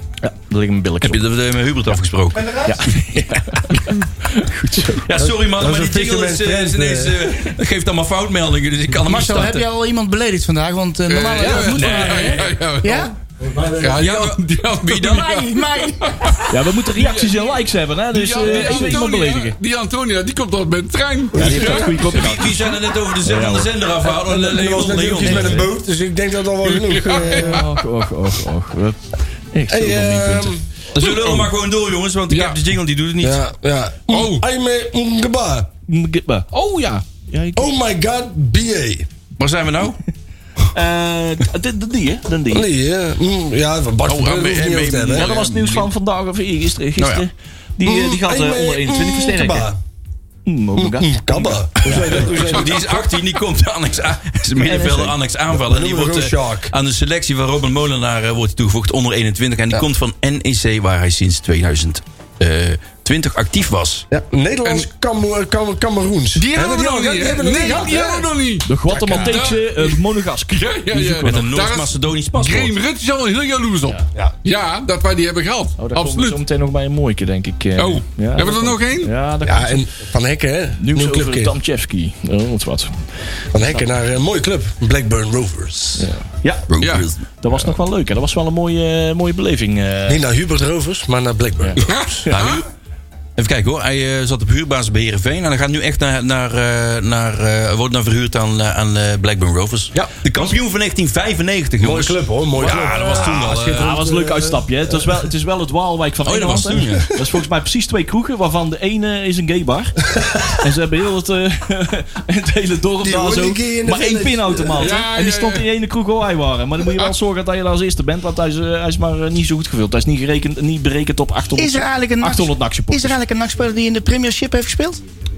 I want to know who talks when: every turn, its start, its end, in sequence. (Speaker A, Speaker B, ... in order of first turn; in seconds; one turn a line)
Speaker A: 0.2-1.2
Speaker B: 1.0-2.7
Speaker C: 2.3-2.9
Speaker A: 2.7-5.1
Speaker B: 5.0-9.7
Speaker D: 5.2-7.4
Speaker C: 9.1-13.1
Speaker E: 11.1-13.1
Speaker A: 11.4-12.3
Speaker B: 11.7-12.5
Speaker D: 13.4-14.1
Speaker E: 13.8-17.6
Speaker B: 14.0-15.7
Speaker C: 15.1-16.4
Speaker A: 16.5-19.6
Speaker E: 18.1-22.2
Speaker D: 21.4-21.8
Speaker A: 21.4-23.8
Speaker B: 21.9-25.7
Speaker D: 24.1-27.7
Speaker A: 25.2-25.6
Speaker C: 25.2-25.6
Speaker E: 26.6-27.7
Speaker A: 27.3-29.0
Speaker A: 29.5-30.6
Speaker D: 29.7-30.6
Speaker B: 30.9-33.4
Speaker E: 31.0-31.5
Speaker E: 32.3-32.6
Speaker D: 33.2-35.7
Speaker E: 34.1-34.4
Speaker A: 35.9-37.7
Speaker D: 37.6-39.1
Speaker B: 39.4-40.0
Speaker A: 40.7-42.7
Speaker D: 42.5-45.3
Speaker B: 44.1-45.9
Speaker A: 45.1-49.7
Speaker B: 47.0-47.3
Speaker D: 47.8-49.8
Speaker A: 50.5-52.7
Speaker D: 50.8-52.8
Speaker B: 51.9-64.1
Speaker E: 52.6-53.0
Speaker A: 54.6-55.2
Speaker D: 55.5-56.7
Speaker D: 64.1-68.3
Speaker E: 66.3-76.4
Speaker A: 68.6-71.4
Speaker D: 68.9-69.4
Speaker B: 71.2-72.7
Speaker A: 75.8-79.9
Speaker E: 77.8-79.1
Speaker D: 79.4-81.5
Speaker A: 80.8-83.1
Speaker D: 83.5-86.1
Speaker A: 83.6-83.9
Speaker A: 86.0-86.7
Speaker E: 86.7-87.1
Speaker B: 86.7-87.2
Speaker A: 87.4-90.2
Speaker D: 90.1-92.1
Speaker E: 91.8-92.6
Speaker B: 92.3-92.7
Speaker B: 93.4-103.9
Speaker D: 101.8-105.2
Speaker E: 102.7-103.8
Speaker A: 103.8-123.2
Speaker B: 106.2-107.1
Speaker D: 110.1-110.6
Speaker D: 113.0-114.9
Speaker E: 114.8-115.7
Speaker E: 116.8-117.1
Speaker C: 121.6-125.0